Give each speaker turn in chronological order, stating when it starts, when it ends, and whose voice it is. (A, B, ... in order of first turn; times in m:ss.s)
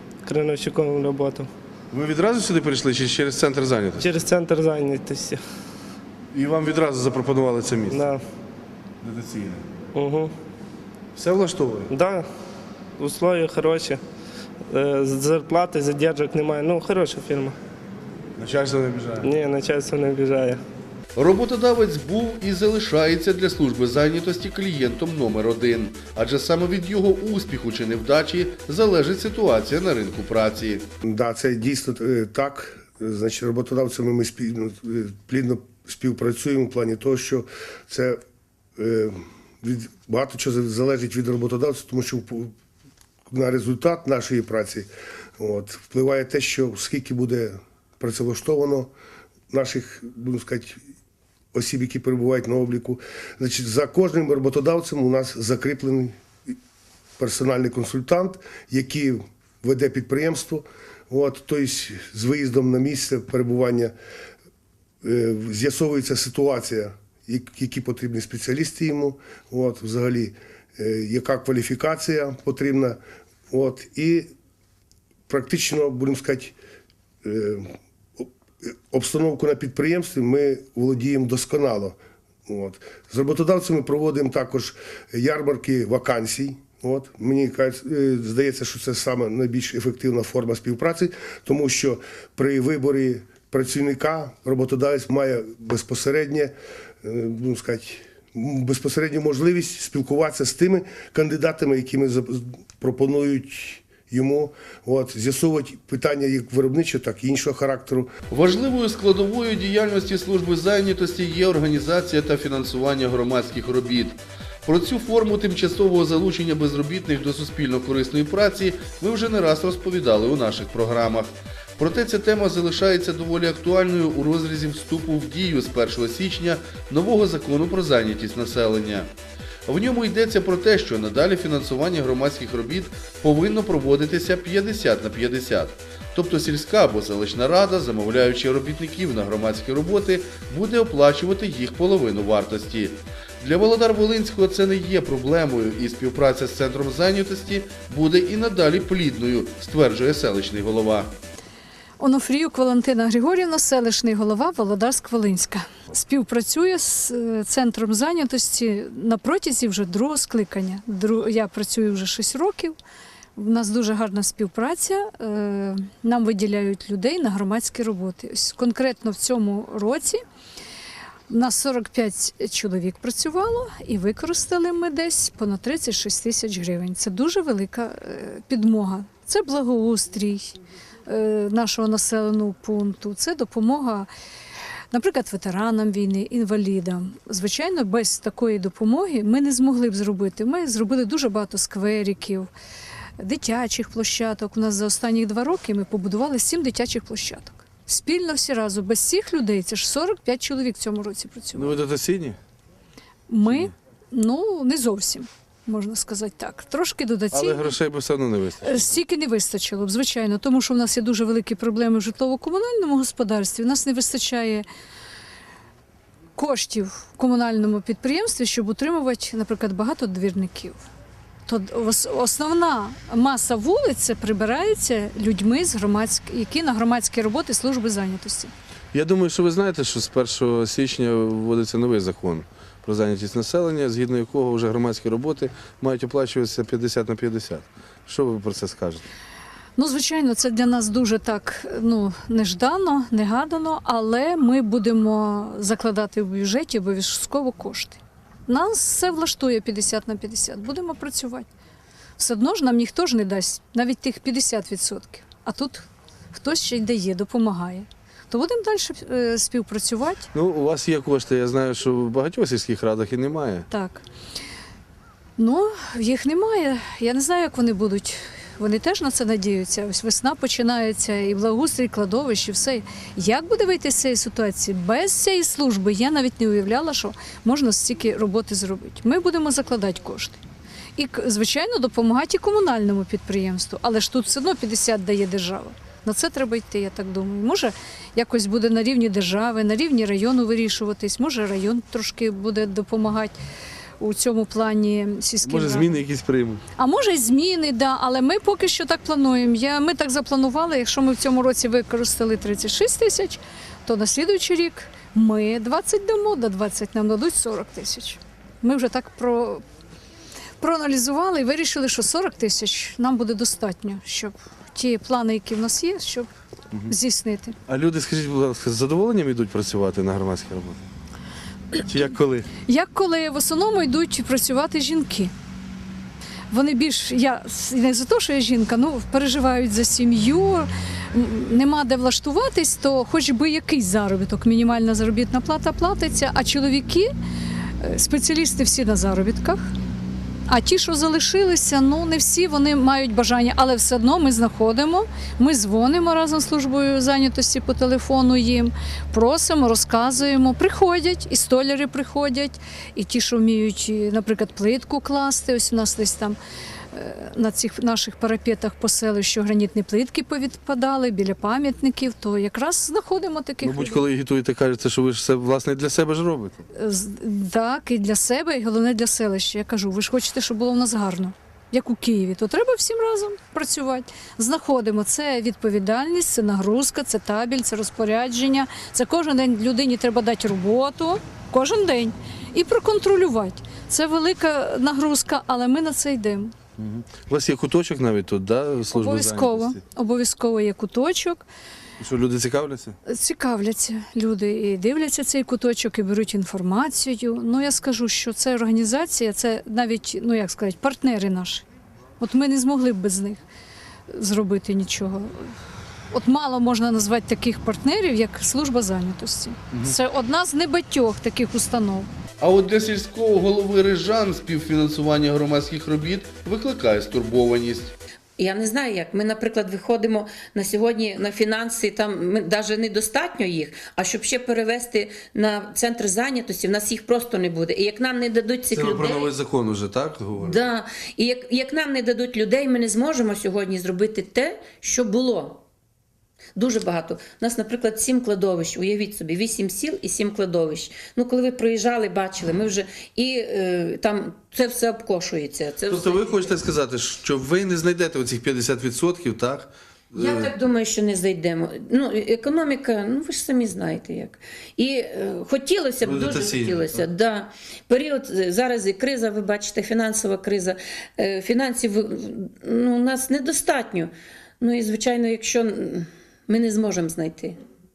0:00.2-0:01.5 A
0:01.9-0:04.1 B
0:04.0-0:05.4 A
0:06.3-0:08.0 B
0:07.9-0:08.2 A
0:09.0-0:09.6 B
0:10.0-0:10.3 A
0:11.2-0:11.9 B
0:11.9-0:12.3 A
0:13.0-0:14.0 A
0:14.7-0:17.6 A
0:18.4-0:19.3 B
0:19.2-0:20.6 A
0:21.2-0:30.9 C
0:31.0-0:38.2 D
0:38.8-0:42.5 D
0:43.3-0:48.9 D
0:49.5-0:50.8 D
0:51.5-0:56.2 D
0:57.2-1:03.9 D
1:05.0-1:13.0 D
1:13.5-1:14.3 D
1:15.3-1:16.6 D
1:17.2-1:48.1 D
1:48.3-2:09.1 C
2:09.7-2:31.1 C
2:32.0-2:42.8 E
2:43.4-2:50.2 E
2:51.3-3:04.1 E
3:04.9-3:12.5 E
3:13.2-3:21.8 E
3:21.6-3:22.4 B
3:23.3-3:27.8 E
3:27.3-3:28.9 B
3:28.6-3:34.7 E
3:36.4-3:40.8 E
3:41.5-3:48.5 E
3:48.9-3:59.0 B
3:59.8-4:11.5 E
4:12.2-4:20.3 E
4:20.3-4:23.7 B
4:23.7-4:24.0 E
4:25.4-4:40.4 E
4:41.0-4:53.4 E
4:54.0-4:56.0 E
4:55.4-4:56.6 B
4:56.8-5:09.6 E
5:10.6-5:16.3 E
5:16.9-5:17.6 E
5:17.7-5:20.8 B
5:21.8-5:22.5 B
5:22.7-5:25.3 E
5:26.5-5:37.1 E
5:37.8-5:39.7 E
5:40.5-5:56.4 E
5:56.9-6:04.0 E
6:03.6-6:06.6 B
6:06.7-6:26.5 E
6:26.8-6:29.8 B
6:28.9-6:31.4 E
6:32.0-6:33.0 B
6:33.1-6:41.6 E
6:42.2-6:43.4 E
6:44.1-6:45.5 E
6:46.1-6:52.1 E
6:52.4-6:58.0 C
6:58.4-7:09.3 F
7:08.7-7:10.6 B
7:10.4-7:15.6 F
7:16.6-7:26.6 F
7:25.9-7:30.5 B
7:30.2-7:47.6 F
7:36.0-7:37.0 B